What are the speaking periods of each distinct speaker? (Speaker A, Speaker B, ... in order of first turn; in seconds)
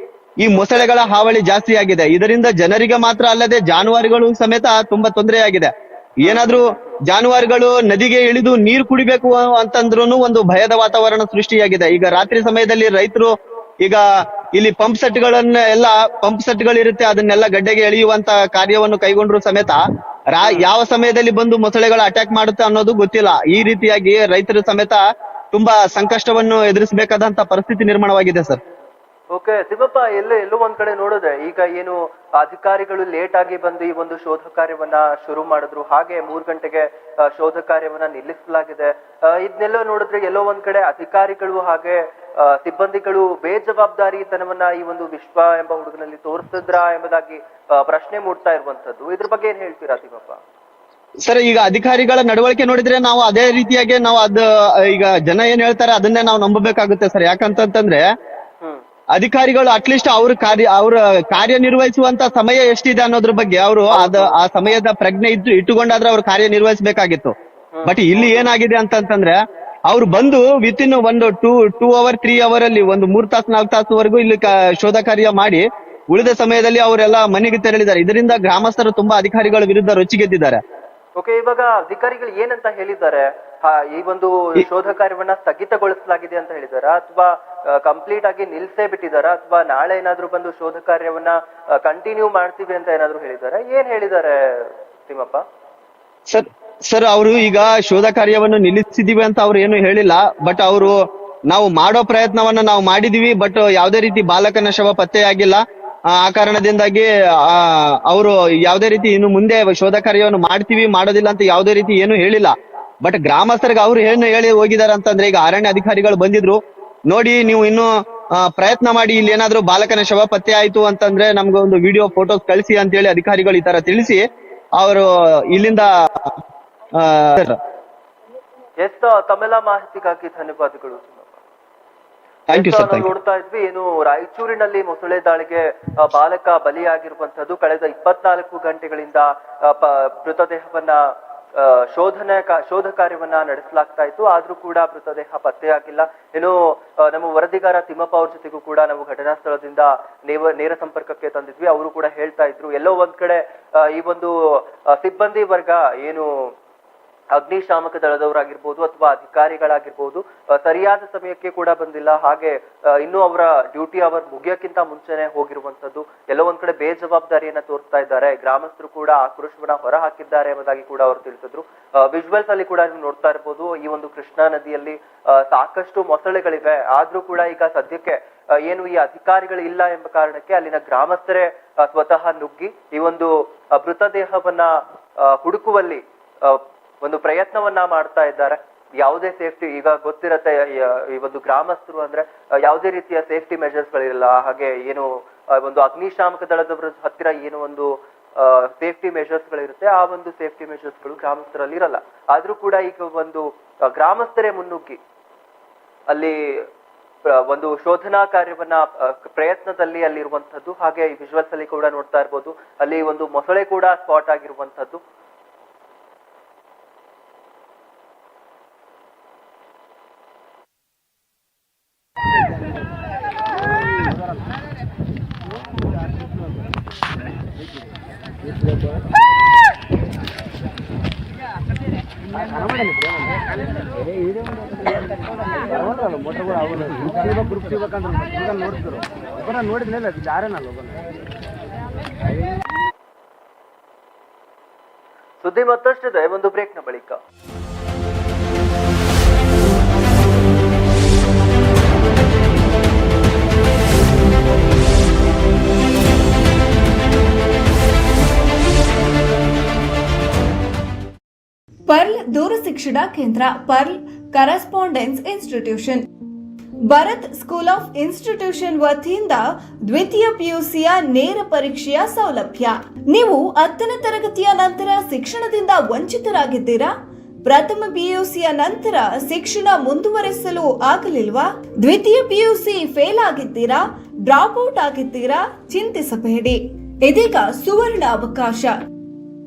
Speaker A: 0.4-25.0, 25.5-28.6, 51.2-58.0, 59.1-67.3, 67.8-80.6, 96.3-124.2, 124.8-126.3, 127.0-127.6, 132.5-133.1
Speaker B: 6.2-7.0, 29.3-50.4, 63.9-64.3, 67.7-68.5, 81.2-95.4, 128.8-131.3, 132.5-156.5, 157.3-205.0, 206.1-206.7, 207.3-215.0, 245.4-247.2
Speaker C: 261.9-266.1, 266.8-276.9, 277.4-288.7